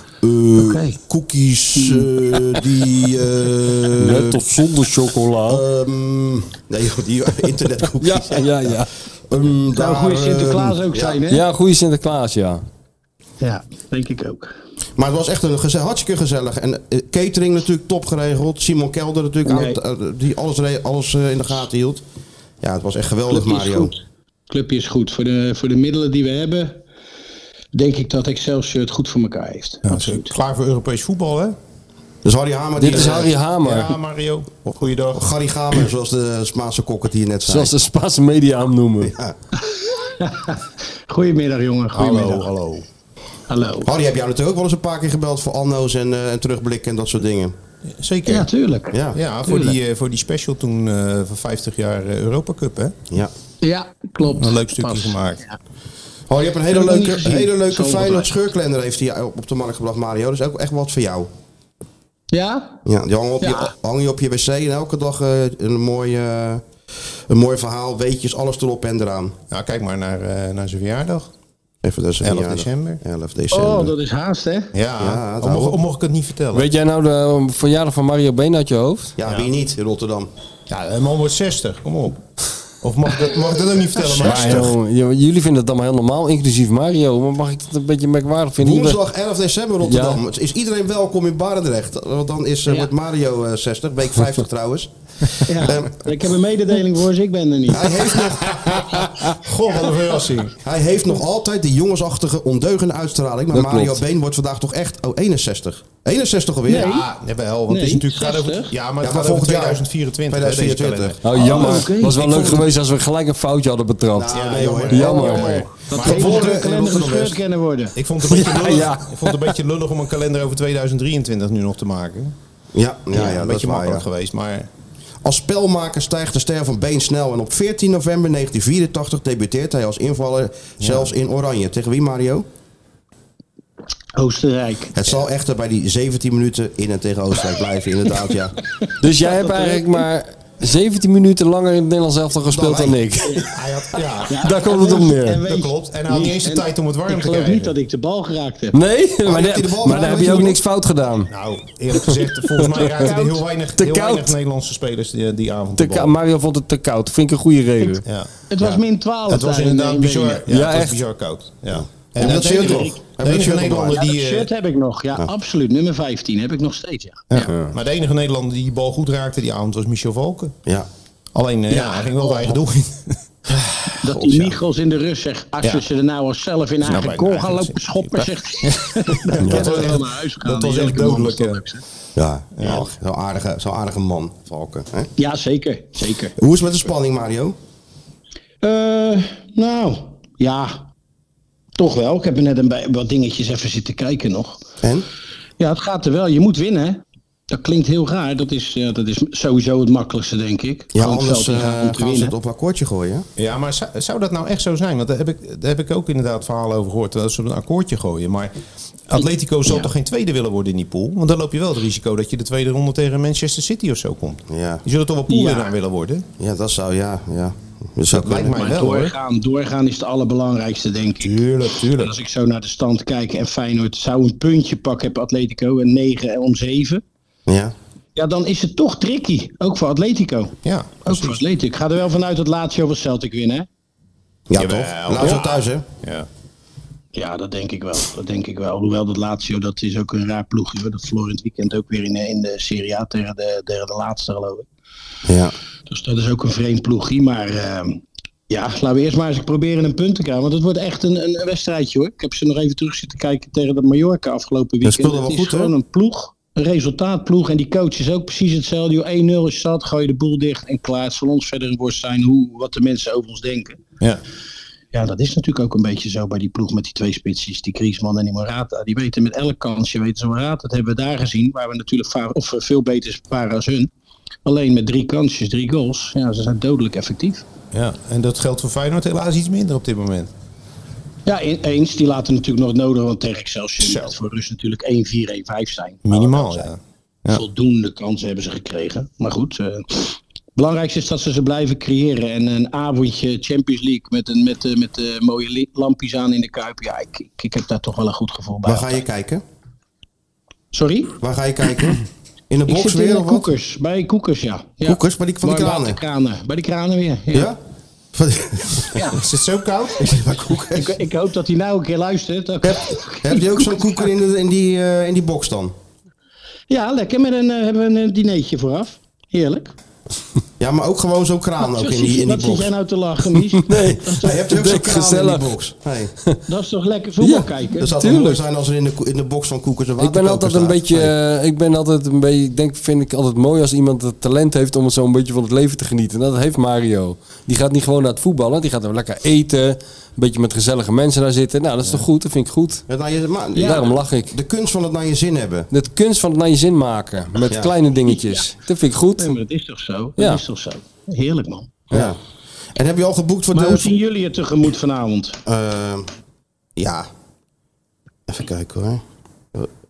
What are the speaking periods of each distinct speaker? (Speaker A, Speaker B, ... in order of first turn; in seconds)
Speaker A: 0.2-4.4, 5.5-11.2, 15.0-22.0, 22.6-23.9, 32.2-33.4, 34.6-37.7, 39.0-39.4, 43.8-47.5, 48.9-49.2, 56.3-61.3, 62.9-66.7, 67.3-69.3, 71.8-73.9, 75.0-75.8, 79.2-80.3, 84.3-84.7, 88.6-96.3, 97.7-99.3, 100.6-107.0, 109.0-111.9, 114.2-117.4, 122.7-124.0, 125.2-132.5, 134.9-138.6, 142.5-143.0, 149.2-150.6, 161.7-164.0, 174.1-174.6, 182.2-185.1, 186.4-187.6, 194.8-195.1, 200.9-203.3, 214.5-214.8, 216.4-218.6, 227.5-227.7, 234.5-235.9, 245.3-245.5, 254.8-255.7, 298.6-299.4, 301.2-303.5, 304.8-306.0, 307.3-307.6, 308.1-309.1, 310.0-311.0, 312.6-315.7, 320.6-322.7, 324.1-326.1, 327.8-331.1, 342.9-345.7, 351.9-352.2, 352.7-353.9, 355.5-356.1, 356.8-357.1, 358.3-359.0
Speaker B: 0.6-1.0, 1.8-2.1, 9.7-11.4, 13.4-14.6, 19.5-19.8, 23.3-24.0, 24.5-26.8, 27.7-30.3, 39.6-42.5, 43.5-43.9, 48.3-49.8, 53.6-55.6, 56.7-58.3, 62.3-62.8, 63.4-63.7, 73.5-74.7, 95.5-97.9, 106.7-107.1, 107.7-108.7, 111.3-112.7, 115.1-118.0, 134.2-134.9, 139.1-140.0, 144.3-148.8, 153.0-153.4, 158.5-160.4, 162.2-163.0, 163.9-167.5, 171.7-172.5, 174.0-181.8, 185.2-186.3, 188.6-190.9, 191.8-194.6, 195.6-202.3, 215.3-215.7, 218.5-227.0, 228.2-233.7, 237.1-244.7, 245.9-263.8, 264.9-273.9, 274.4-277.4, 281.3-286.7, 287.3-299.0, 300.7-301.2, 302.7-307.5, 309.0-309.2, 310.7-313.9, 316.7-319.8, 321.6-324.4, 326.5-327.9, 343.6-343.9, 348.1-348.4, 349.2-351.9, 353.5-355.4
Speaker C: 4.0-5.6, 8.0-8.9, 11.3-12.6, 32.8-33.9, 37.5-39.1, 76.5-79.1, 84.2-89.0, 89.8-90.2, 103.5-104.0, 111.2-114.4, 114.9-115.7, 118.3-119.5, 139.0-143.5, 144.3-145.4, 148.7-151.3, 152.0-152.9, 153.8-154.3, 155.8-158.0, 160.5-161.0, 167.5-167.7, 323.5-325.5, 327.2-328.4, 330.0-342.8, 343.6-344.4, 345.7-349.4, 350.2-350.4
Speaker D: 29.9-31.6, 33.6-35.3, 41.9-42.9, 48.0-48.5, 49.1-52.9, 54.4-55.4, 69.5-71.3, 72.2-73.0, 74.7-76.7, 80.7-84.7, 98.5-100.5, 106.8-111.2, 114.3-116.6, 117.9-122.3, 123.1-124.7, 143.5-144.3, 145.5-147.7, 151.3-156.1, 158.0-164.5, 167.3-170.6, 171.3-173.6, 176.8-181.6, 182.6-182.9, 203.4-208.5, 209.1-216.2, 218.1-219.1, 221.2-222.1, 230.6-231.4, 234.6-236.3, 277.7-280.3, 283.8-284.1, 286.1-287.4, 309.1-310.3